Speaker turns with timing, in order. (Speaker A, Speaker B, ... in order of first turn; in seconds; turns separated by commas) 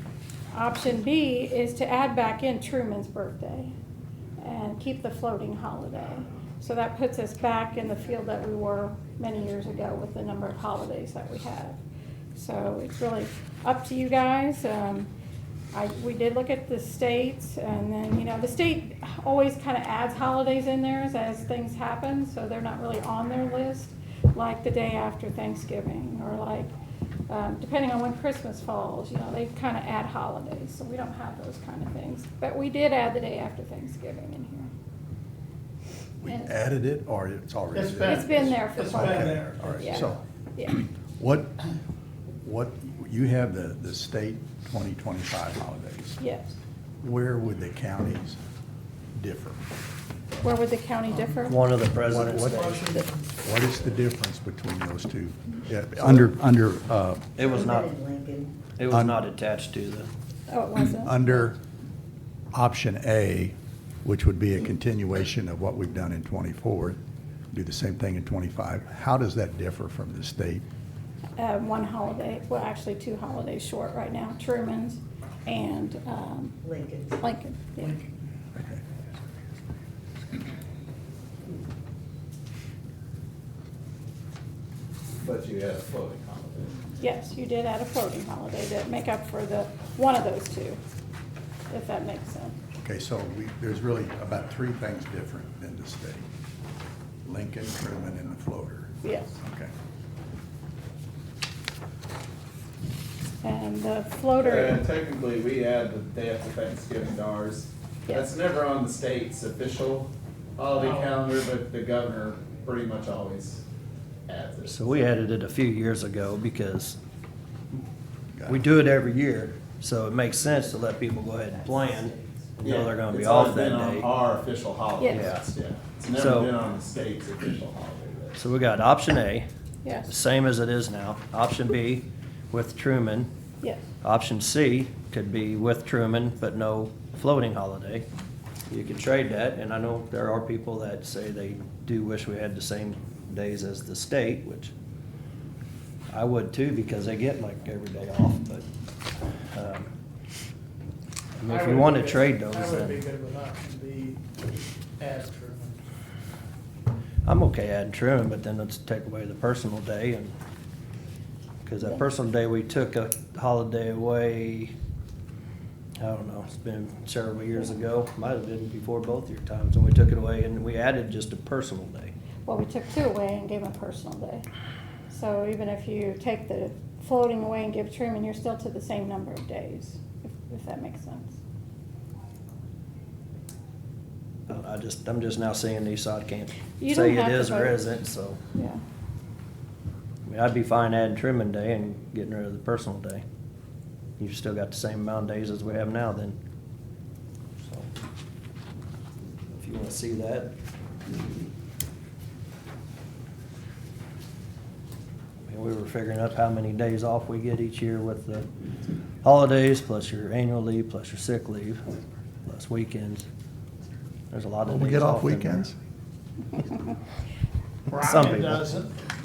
Speaker A: 0.5-3.7, Speaker A: 4.4-11.8, Speaker A: 12.3-15.1, Speaker A: 15.7-26.7, Speaker A: 27.3-34.7, Speaker B: 36.2-41.6, Speaker C: 37.7-40.2, Speaker A: 38.1-40.8, Speaker B: 42.4-46.2, Speaker A: 46.2-46.5, Speaker B: 47.0-48.4, Speaker B: 49.1-49.6, Speaker A: 50.4-51.6, Speaker D: 51.4-52.7, Speaker B: 52.0-57.3, Speaker A: 52.7-53.0, Speaker D: 57.4-57.9, Speaker E: 57.4-58.6, Speaker D: 58.8-60.1, Speaker B: 58.9-59.2, Speaker A: 60.5-61.3, Speaker B: 60.8-61.6, Speaker B: 62.5-67.0, Speaker B: 67.5-70.7, Speaker A: 71.4-76.6, Speaker E: 76.6-77.2, Speaker A: 77.2-78.0, Speaker B: 78.5-78.8, Speaker F: 85.2-86.9, Speaker A: 87.0-90.8, Speaker A: 91.7-92.6, Speaker B: 92.8-96.3, Speaker B: 97.2-99.7, Speaker A: 99.0-99.4, Speaker A: 103.4-104.8, Speaker F: 104.4-113.6, Speaker C: 110.8-111.2, Speaker F: 114.3-114.9, Speaker D: 114.7-117.0, Speaker D: 118.5-124.1, Speaker E: 121.8-122.3, Speaker F: 122.6-128.4, Speaker A: 125.0-125.3, Speaker D: 125.1-125.5, Speaker D: 126.1-126.6, Speaker D: 128.3-129.5, Speaker A: 129.8-130.1, Speaker D: 130.1-133.3, Speaker D: 134.0-138.1, Speaker D: 138.7-144.7, Speaker D: 146.1-148.7, Speaker D: 149.5-149.9, Speaker D: 151.4-153.0, Speaker C: 151.5-155.8, Speaker D: 157.2-160.3, Speaker D: 161.7-164.7, Speaker D: 166.0-172.1, Speaker A: 172.5-174.5, Speaker A: 175.1-181.4, Speaker D: 184.5-188.4, Speaker A: 186.8-187.9, Speaker A: 188.6-188.8, Speaker D: 190.3-193.2, Speaker D: 194.2-196.4, Speaker D: 197.6-197.9, Speaker D: 199.5-200.5, Speaker D: 205.4-208.5, Speaker D: 209.2-211.9, Speaker D: 212.5-213.2, Speaker D: 214.3-215.7, Speaker B: 214.7-215.8, Speaker C: 217.9-218.9, Speaker D: 217.9-218.7